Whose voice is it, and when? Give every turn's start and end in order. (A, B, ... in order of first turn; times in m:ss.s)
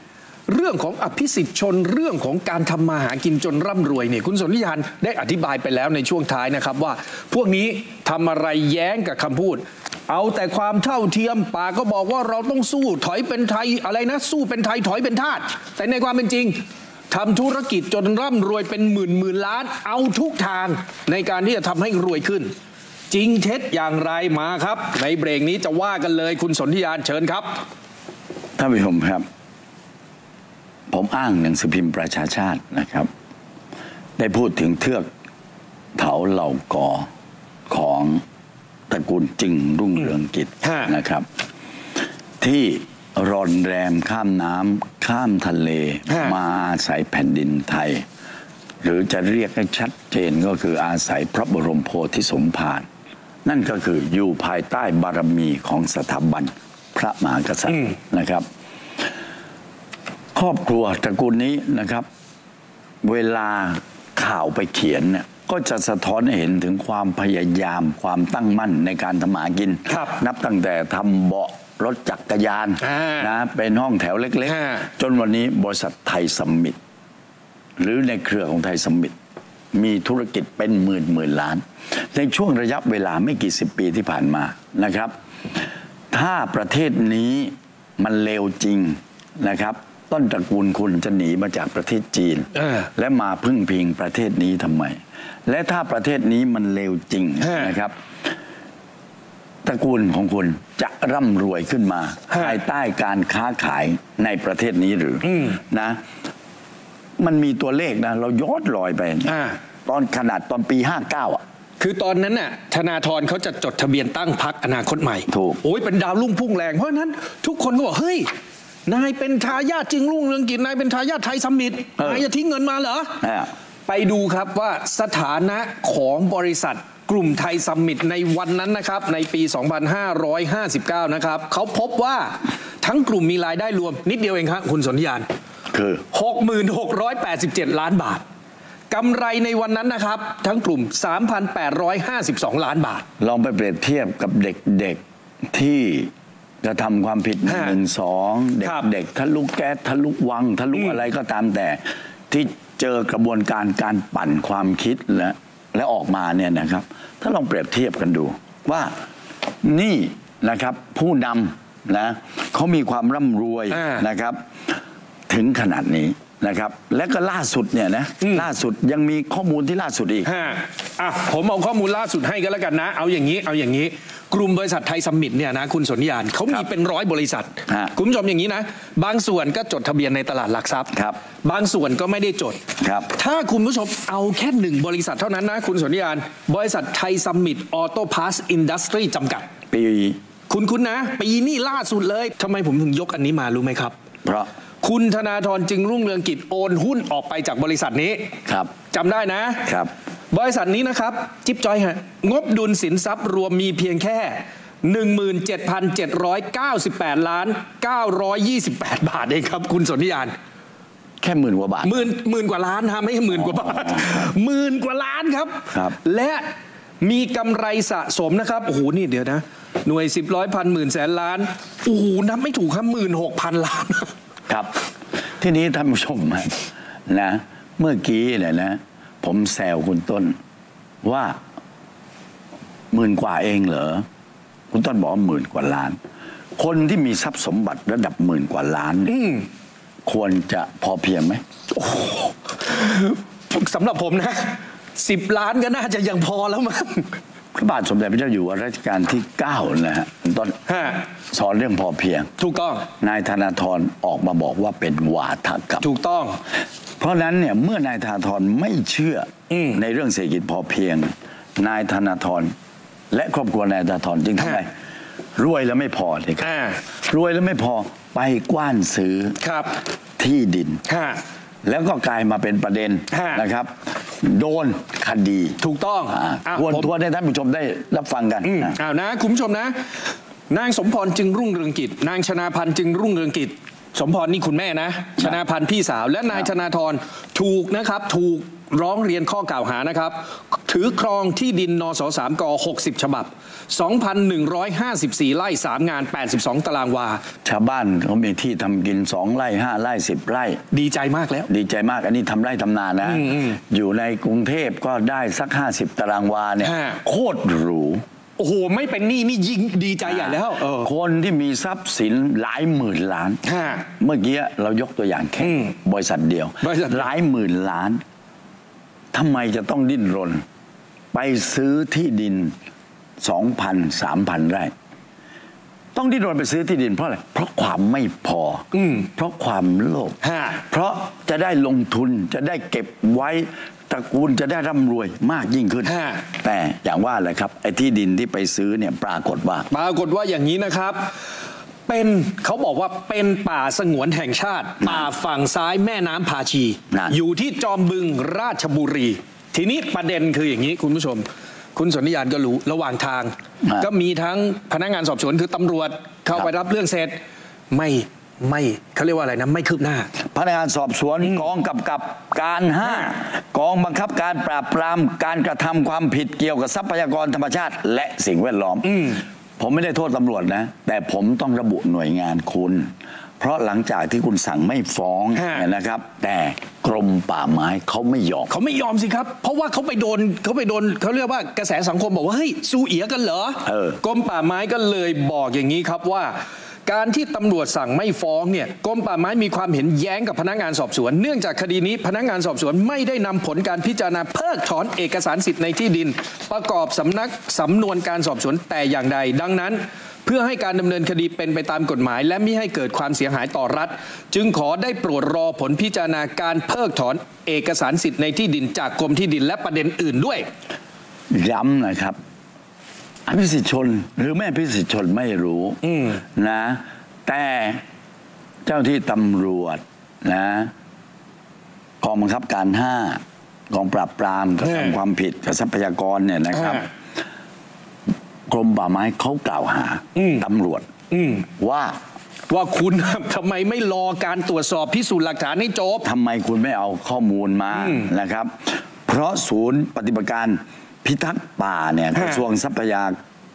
0:00.5-0:16.6 A
0:17.1-0:22.5 A
0:23.1-0:27.6 A
0:28.6-0:29.2 B
0:30.9-0:33.1 B
0:34.2-0:35.1 B
0:36.0-0:37.1 B
0:37.7-0:38.2 B
0:38.9-0:41.2 B
0:40.6-0:40.9 A
0:42.4-0:48.0 B
0:46.1-0:46.4 A
0:48.8-0:52.8 B
0:53.4-0:58.4 B
1:00.3-1:02.0 B
1:03.0-1:16.8 B
1:09.9-1:10.1 A
1:12.8-1:13.3 A
1:14.5-1:14.9 A
1:17.8-1:19.1 B
1:19.7-1:25.1 B
1:26.1-1:37.9 B
1:32.6-1:32.8 A
1:37.4-1:37.7 A
1:39.6-1:46.0 B
1:42.3-1:42.6 A
1:45.2-1:45.6 A
1:47.2-1:51.4 B
1:49.2-1:49.6 A
1:51.8-1:58.3 A
1:55.3-1:55.6 B
1:58.8-2:03.2 A
2:02.0-2:02.2 B
2:03.2-2:03.5 B
2:03.9-2:15.2 A
2:15.7-2:16.0 B
2:16.1-2:18.2 A
2:18.9-2:23.0 A
2:23.2-2:25.0 B
2:25.5-2:26.1 B
2:26.6-2:38.9 B
2:27.4-2:27.8 A
2:30.7-2:31.0 A
2:39.6-2:44.4 B
2:43.7-2:44.0 A
2:45.3-2:50.3 B
2:50.2-3:02.6 A
3:02.8-3:03.1 B
3:03.1-3:09.5 A
3:09.7-3:10.2 B
3:10.5-3:13.9 A
3:14.8-3:18.3 A
3:18.9-3:19.7 A
3:19.6-3:19.9 B
3:20.3-3:30.3 A
3:31.2-3:32.1 B
3:31.8-3:36.4 A
3:33.3-3:34.3 B
3:37.0-3:44.1 A
3:44.5-3:44.8 B
3:45.4-3:50.3 B
3:51.0-3:51.4 B
3:52.9-3:54.0 B
3:54.7-3:56.0 B
3:56.6-3:59.1 B
3:59.1-3:59.5 A
4:00.0-4:01.4 B
4:01.7-4:07.2 A
4:07.5-4:10.6 B
4:10.7-4:11.0 A
4:11.3-4:12.3 B
4:12.4-4:12.9 A
4:13.0-4:15.8 B
4:15.8-4:16.4 A
4:17.0-4:22.5 B
4:19.5-4:19.8 A
4:23.1-4:24.7 B
4:25.4-4:26.5 B
4:26.4-4:26.8 A
4:27.0-4:29.4 B
4:29.4-4:29.8 A
4:30.2-4:30.8 B
4:30.9-4:31.2 A
4:31.6-4:35.6 B
4:33.1-4:33.4 A
4:35.6-4:36.9 A
4:36.1-4:38.8 B
4:38.4-4:39.8 A
4:40.5-4:57.2 A
4:57.4-5:00.6 B
5:00.7-5:01.5 A
5:01.5-5:08.0 B
5:03.0-5:03.6 A
5:06.6-5:07.0 A
5:08.4-5:10.9 A
5:10.0-5:13.4 B
5:13.4-5:13.8 A
5:14.0-5:18.0 B
5:15.4-5:15.7 A
5:16.6-5:17.1 A
5:19.1-5:20.4 B
5:21.1-5:22.5 B
5:23.2-5:24.7 B
5:25.9-5:39.7 B
5:28.7-5:29.1 A
5:30.2-5:30.6 A
5:35.8-5:36.2 A
5:39.7-5:41.1 A
5:41.9-5:57.2 A
5:44.8-5:45.1 B
5:46.9-5:47.2 B
5:57.7-6:00.1 A
6:00.3-6:18.5 B
6:08.8-6:09.2 A
6:15.3-6:15.6 A
6:18.5-6:50.5 A
6:23.6-6:24.0 B
6:51.3-6:52.2 B
6:53.3-6:57.8 B
6:55.8-6:56.2 A
6:58.6-7:00.7 B
7:02.0-7:06.9 B
7:04.6-7:05.0 A
7:06.5-7:06.8 A
7:08.5-7:10.9 B
7:10.1-7:10.4 A
7:11.1-7:11.4 A
7:11.6-7:12.0 B
7:12.5-7:16.0 A
7:16.0-7:23.2 B
7:17.7-7:18.1 A
7:22.1-7:22.4 A